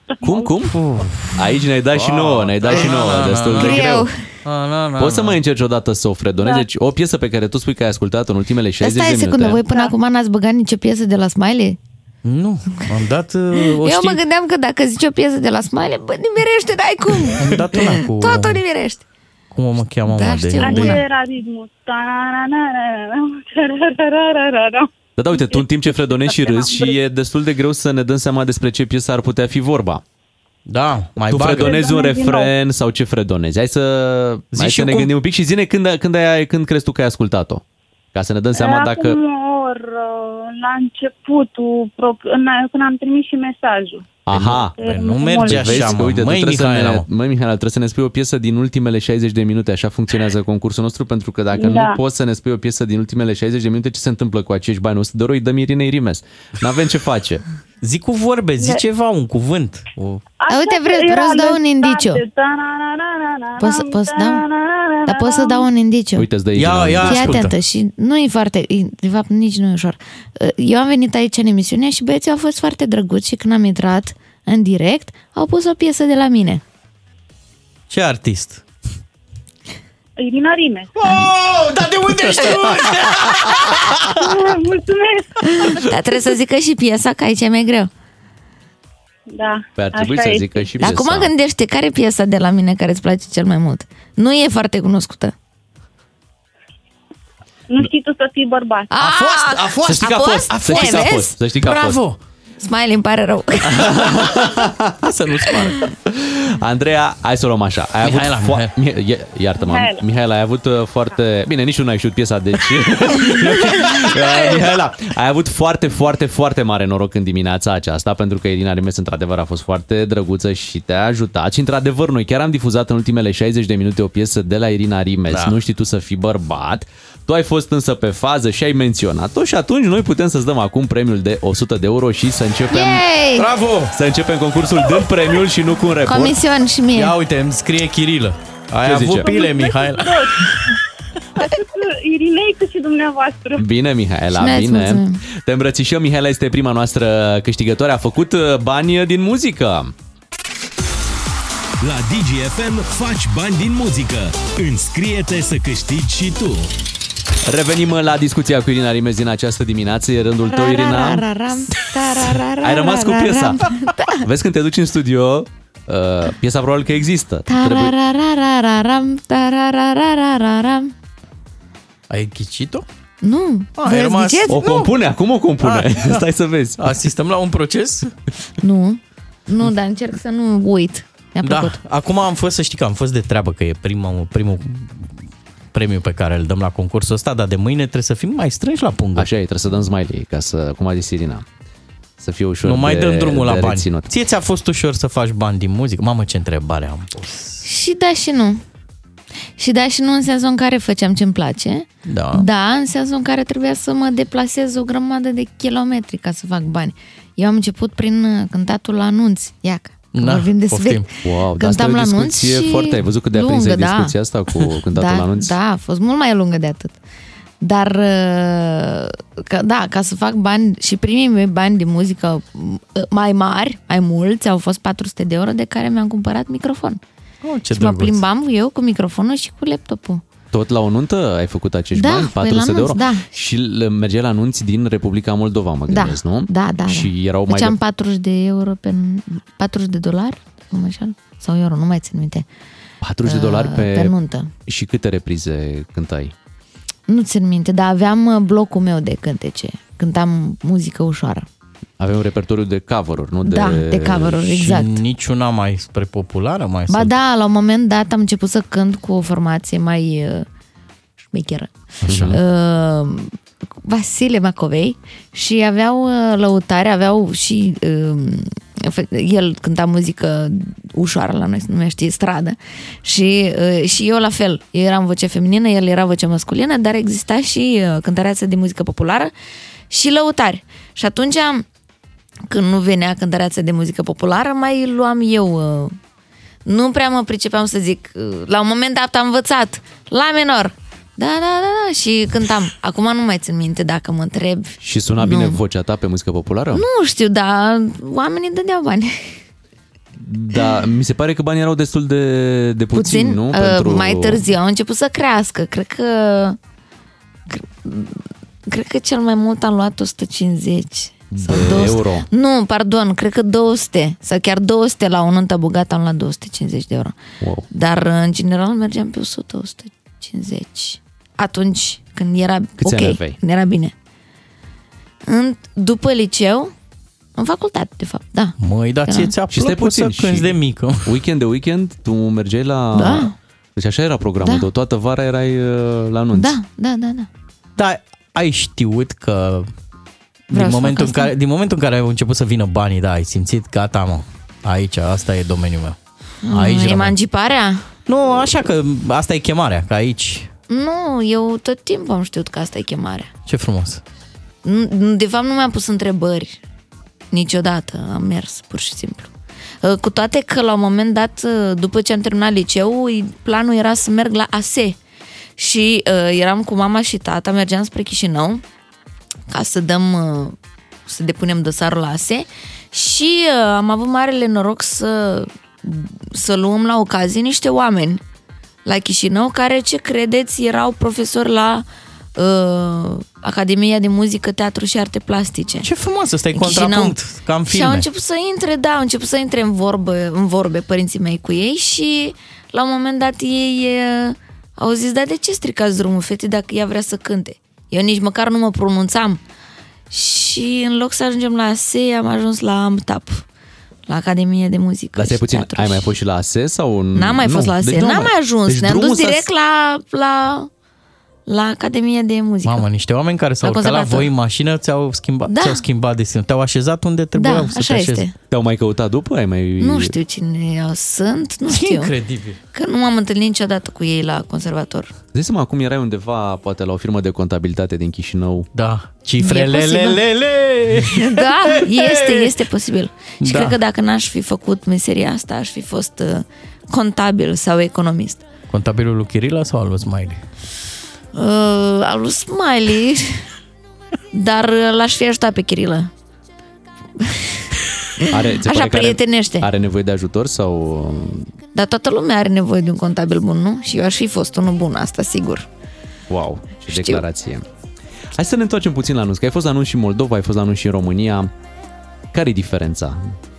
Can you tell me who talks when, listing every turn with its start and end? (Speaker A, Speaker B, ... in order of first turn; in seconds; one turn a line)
Speaker A: 0.2-0.8
Speaker B: 0.3-3.9
Speaker A: 1.3-4.1
Speaker C: 3.5-4.2
Speaker B: 4.4-5.4
Speaker A: 5.0-9.6
Speaker C: 8.8-11.8
Speaker B: 12.2-14.2
Speaker C: 13.6-19.0
Speaker B: 17.4-18.6
Speaker B: 19.5-21.0
Speaker C: 20.1-21.0
Speaker D: 20.6-26.9
Speaker A: 25.2-30.0
Speaker B: 30.7-31.9
Speaker A: 31.2-37.6
Speaker D: 31.5-32.5
Speaker B: 34.5-35.1
Speaker A: 38.1-39.2
Speaker D: 38.5-44.2
Speaker A: 44.2-44.8
Speaker B: 44.3-47.0
Speaker D: 44.8-46.1
Speaker A: 45.4-57.4
Speaker D: 51.5-52.0
Speaker B: 57.8-60.3
Speaker D: 60.4-65.7
Speaker C: 60.5-62.2
Speaker C: 63.6-64.4
Speaker C: 65.1-66.3
Speaker A: 66.2-67.4
Speaker B: 66.5-67.5
Speaker C: 67.0-76.6
Speaker B: 77.9-78.6
Speaker D: 80.2-80.9
Speaker B: 80.9-84.3
Speaker D: 84.2-85.8
Speaker C: 85.7-87.9
Speaker D: 89.3-90.7
Speaker A: 89.8-91.3
Speaker C: 90.8-95.3
Speaker D: 97.7-98.9
Speaker C: 98.9-101.3
Speaker B: 99.0-99.9
Speaker A: 99.7-102.0
Speaker B: 100.5-102.2
Speaker C: 102.6-104.0
Speaker A: 103.6-105.0
Speaker B: 105.0-105.9
Speaker C: 105.5-105.9
Speaker A: 106.1-133.0
Speaker B: 108.0-108.7
Speaker D: 109.6-110.0
Speaker B: 113.2-113.8
Speaker C: 132.7-133.5
Speaker B: 133.4-133.9
Speaker A: 133.9-136.3
Speaker C: 136.1-137.2
Speaker B: 136.9-140.5
Speaker A: 138.8-139.3
Speaker D: 139.2-140.5
Speaker D: 141.4-143.7
Speaker A: 143.6-149.9
Speaker C: 144.4-145.2
Speaker E: 151.8-156.5
Speaker A: 157.4-161.2
Speaker C: 160.5-164.2
Speaker A: 162.6-167.9
Speaker C: 167.4-170.9
Speaker B: 172.1-172.8
Speaker C: 173.2-174.7
Speaker B: 173.8-174.9
Speaker A: 174.5-176.9
Speaker B: 175.6-176.2
Speaker B: 176.8-178.1
Speaker C: 178.6-181.8
Speaker B: 181.4-185.1
Speaker B: 185.7-189.3
Speaker A: 189.2-191.4
Speaker A: 192.2-194.1
Speaker B: 192.6-197.6
Speaker C: 197.6-198.6
Speaker C: 199.6-214.1
Speaker B: 202.1-202.5
Speaker B: 210.1-211.1
Speaker A: 211.2-215.5
Speaker C: 214.9-216.9
Speaker C: 217.6-227.0
Speaker B: 227.4-228.2
Speaker C: 227.7-230.2
Speaker A: 230.5-237.7
Speaker C: 231.9-233.3
Speaker C: 235.9-242.4
Speaker A: 243.0-244.1
Speaker C: 243.2-244.5
Speaker A: 244.7-246.3
Speaker C: 247.1-251.4
Speaker A: 252.0-254.5
Speaker C: 253.4-255.0
Speaker B: 254.5-257.1
Speaker C: 256.9-260.4
Speaker C: 261.3-261.7
Speaker A: 262.0-262.4
Speaker B: 262.1-262.4
Speaker C: 262.3-263.3
Speaker C: 263.8-279.3
Speaker C: 279.9-281.6
Speaker C: 282.5-285.9
Speaker C: 286.6-295.6
Speaker A: 294.8-296.8
Speaker C: 296.7-299.4
Speaker A: 300.2-304.4
Speaker C: 302.9-306.6
Speaker C: 307.5-317.1
Speaker A: 311.3-312.3
Speaker A: 317.4-317.7
Speaker C: 317.7-323.9
Speaker A: 322.8-323.4
Speaker C: 325.3-326.7
Speaker C: 327.4-328.6
Speaker B: 328.6-331.1
Speaker C: 329.1-329.3
Speaker A: 329.5-336.5
Speaker C: 332.9-333.3
Speaker C: 334.4-334.7
Speaker C: 336.3-337.3
Speaker B: 337.8-339.7
Speaker B: 340.5-345.9
Speaker C: 340.5-341.3
Speaker C: 346.4-347.8
Speaker B: 346.5-347.1
Speaker B: 348.1-350.5
Speaker C: 350.7-353.3
Speaker B: 353.5-354.0
Speaker C: 354.6-356.6
Speaker C: 357.3-359.3
Speaker C: 359.8-364.9
Speaker C: 365.6-368.6
Speaker C: 369.5-370.6
Speaker C: 371.1-378.2
Speaker C: 378.8-385.9
Speaker B: 385.8-388.1
Speaker C: 386.5-399.4
Speaker C: 400.1-403.4
Speaker C: 404.1-406.1
Speaker A: 405.1-409.5
Speaker C: 407.1-410.7
Speaker C: 411.5-412.8
Speaker B: 412.6-418.3
Speaker C: 413.6-414.3
Speaker C: 415.5-415.8
Speaker C: 417.3-418.3
Speaker A: 418.5-420.1
Speaker C: 419.8-422.1
Speaker B: 421.7-422.6
Speaker C: 422.7-425.1
Speaker A: 425.3-428.7
Speaker B: 428.7-432.5
Speaker C: 429.4-430.2
Speaker C: 431.1-438.4
Speaker B: 433.4-433.8
Speaker B: 438.7-440.4
Speaker C: 441.3-443.4
Speaker C: 444.3-446.1
Speaker C: 447.2-447.6
Speaker C: 448.2-449.7
Speaker A: 448.3-451.5
Speaker C: 451.7-455.6
Speaker A: 456.3-457.6
Speaker C: 456.9-457.2
Speaker A: 458.3-461.5
Speaker A: 462.3-463.3